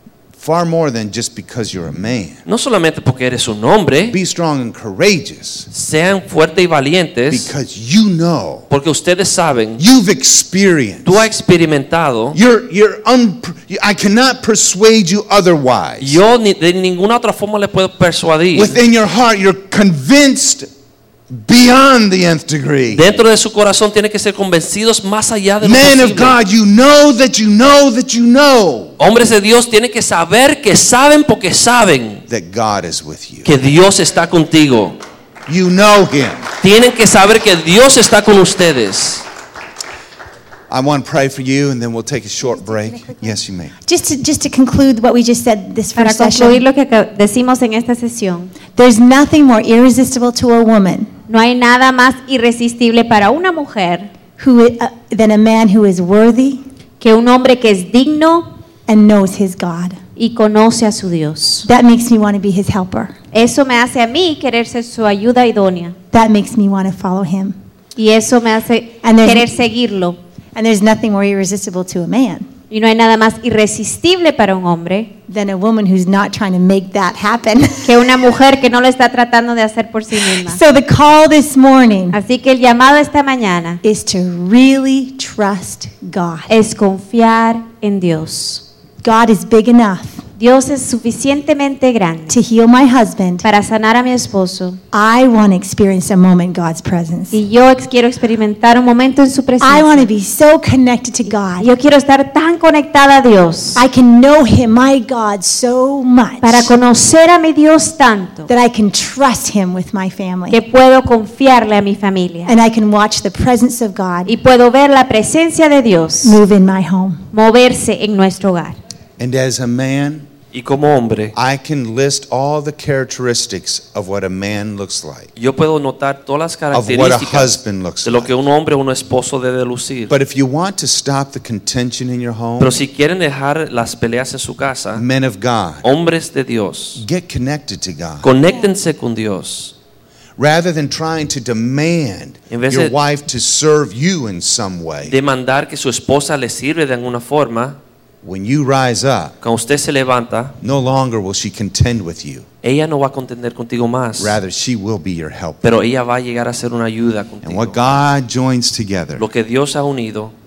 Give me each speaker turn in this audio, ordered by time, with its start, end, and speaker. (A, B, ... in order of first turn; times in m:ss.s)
0:00.4-0:02.4 A
0:02.4-0:04.2 B
0:04.1-0:05.7 A
0:05.7-0:07.5 B
0:07.3-0:08.7 A
0:08.7-0:09.8 B
0:09.8-0:11.3 A
0:11.0-0:12.4 B
0:12.3-0:16.2 A
0:16.0-0:18.8 B
0:18.5-0:20.7 A
0:21.3-0:23.2 A
0:22.9-0:26.4 B
0:25.6-0:28.9 A
0:29.0-0:32.2 B
0:32.3-0:33.5 A
0:33.4-0:35.0 B
0:35.5-0:36.5 A
0:36.6-0:39.2 B
0:40.7-0:43.7 A
0:43.8-0:46.6 C
0:45.9-0:48.5 D
0:48.8-0:51.1 C
0:51.3-0:54.1 D
0:54.4-0:56.6 C
0:57.0-0:58.5 D
0:58.9-1:00.0 C
1:00.2-1:01.7 D
1:01.6-1:03.1 C
1:03.3-1:05.9 D
1:06.1-1:07.6 C
1:08.0-1:10.2 D
1:09.0-1:09.5 C
1:10.5-1:12.5 C
1:12.7-1:15.1 D
1:15.3-1:18.0 C
1:17.8-1:20.6 D
1:20.2-1:22.2 C
1:22.1-1:23.8 D
1:23.8-1:26.5 C
1:26.5-1:28.6 D
1:29.0-1:30.2 C
1:30.4-1:32.4 D
1:32.3-1:33.4 C
1:33.4-1:34.8 D
1:34.9-1:37.4 C
1:37.3-1:40.1 D
1:39.6-1:41.7 C
1:41.6-1:43.8 D
1:43.7-1:46.7 C
1:46.4-1:48.5 D
1:48.5-1:50.6 C
1:50.5-1:52.5 D
1:52.5-1:54.3 C
1:54.2-1:56.4 D
1:56.2-1:57.2 C
1:57.3-1:58.8 D
1:59.2-2:00.3 A
2:00.5-2:01.3 B
2:01.3-2:05.3 A
2:05.4-2:10.1 B
2:06.7-2:08.3 A
2:10.1-2:12.7 A
2:12.6-2:15.0 B
2:14.9-2:15.8 A
2:15.8-2:17.0 B
2:17.0-2:18.3 A
2:18.2-2:19.7 B
2:20.4-2:25.2 A
2:22.5-2:22.9 B
2:25.1-2:27.8 B
2:28.2-2:29.3 A
2:29.4-2:30.6 B
2:30.6-2:32.5 A
2:32.6-2:34.3 B
2:34.2-2:35.6 A
2:35.6-2:38.0 B
2:37.4-2:39.2 A
2:39.2-2:40.3 B